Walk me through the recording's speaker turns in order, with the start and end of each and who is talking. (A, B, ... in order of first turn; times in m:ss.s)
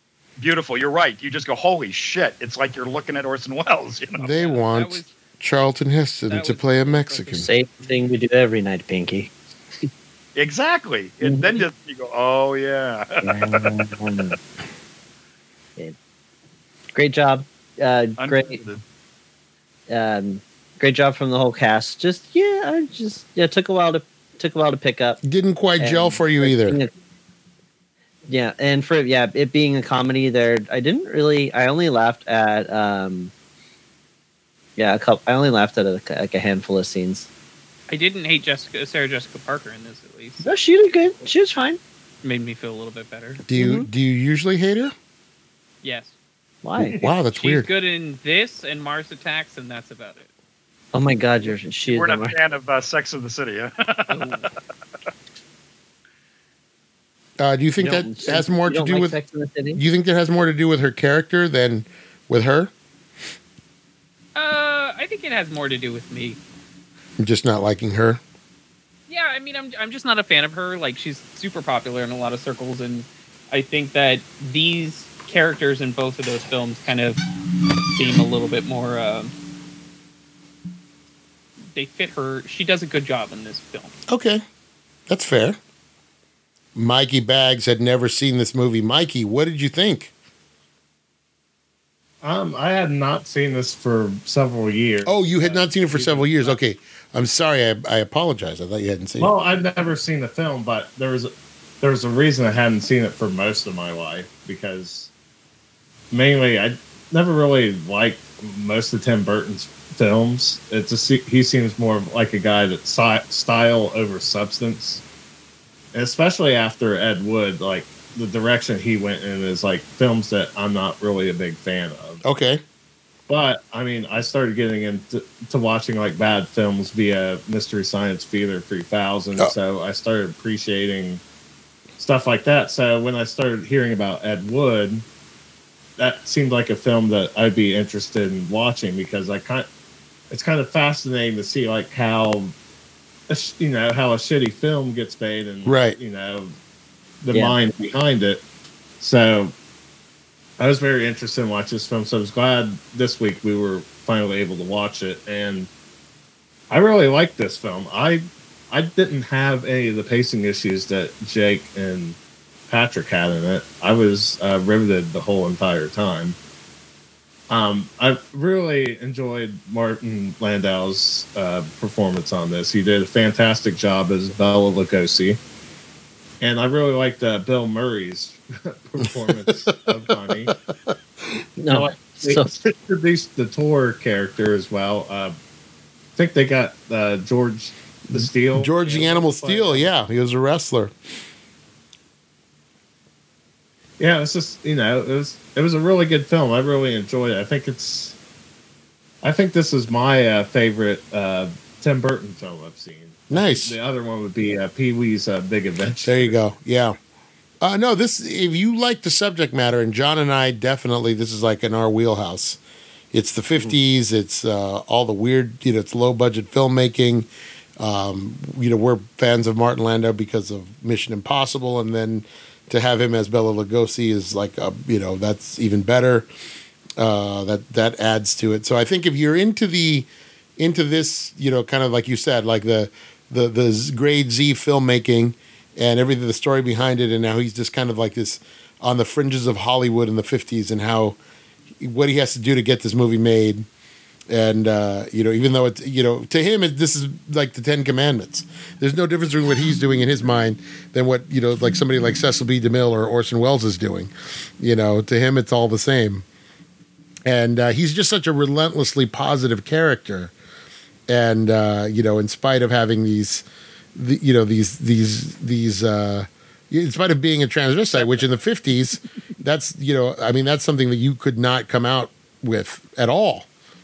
0:00.4-0:04.3 A
0:04.2-0:07.5 B
0:04.2-0:05.1 C
0:06.3-0:07.6 C
0:07.4-0:09.3 D
0:10.4-0:13.7 A
0:11.2-0:11.6 D
0:13.2-0:14.4 D
0:16.9-0:18.6 D
0:18.2-0:18.8 A
0:19.9-0:25.2 D
0:25.2-0:26.8 B
0:25.8-0:26.9 D
0:28.3-0:33.3 D
0:34.8-0:37.3 D
0:37.9-0:40.5 C
0:40.4-0:41.8 D
0:42.2-0:43.4 C
0:43.5-0:44.9 B
0:43.6-0:43.9 D
0:45.8-0:46.1 C
0:46.6-0:47.0 D
0:46.9-0:47.7 B
0:47.0-0:50.3 C
0:50.9-0:52.4 D
0:51.9-0:54.2 A
0:54.1-0:54.5 C
0:57.4-0:59.2 B
0:57.8-0:59.8 D
0:59.8-1:02.7 B
1:04.4-1:06.4 C
1:07.2-1:08.2 B
1:09.1-1:17.2 C
1:17.8-1:19.3 C
1:21.7-1:23.9 C
1:24.1-1:24.4 B
1:25.1-1:25.6 B
1:26.8-1:30.1 B
1:32.2-1:36.6 E
1:35.0-1:39.3 B
1:39.2-1:45.1 E
1:46.1-1:55.0 E
1:55.9-2:02.2 E
2:02.2-2:02.6 B
2:03.3-2:11.2 E
2:12.0-2:15.0 E
2:16.0-2:19.7 E
2:20.3-2:22.5 E
2:23.3-2:26.6 E
2:25.6-2:26.0 B
2:27.2-2:28.4 E
2:27.3-2:27.6 D
2:29.0-2:29.5 E
2:30.6-2:35.7 E
2:36.7-2:42.2 E
2:42.7-2:46.4 E
2:47.5-2:55.4 E
2:56.4-3:00.6 E
2:59.2-3:01.4 B
3:01.6-3:02.5 D
3:01.7-3:05.4 E
3:06.2-3:09.9 E
3:08.1-3:10.9 B
3:14.0-3:18.2 E
3:19.2-3:26.4 E
3:23.3-3:23.8 B
3:26.0-3:27.0 B
3:27.6-3:32.6 B
3:33.1-3:37.3 B
3:37.8-3:46.3 B
3:47.0-3:50.1 B
3:50.6-4:01.2 B
4:01.8-4:03.7 B
4:04.3-4:16.2 B
4:17.2-4:20.3 B
4:21.1-4:23.4 B
4:24.0-4:33.5 B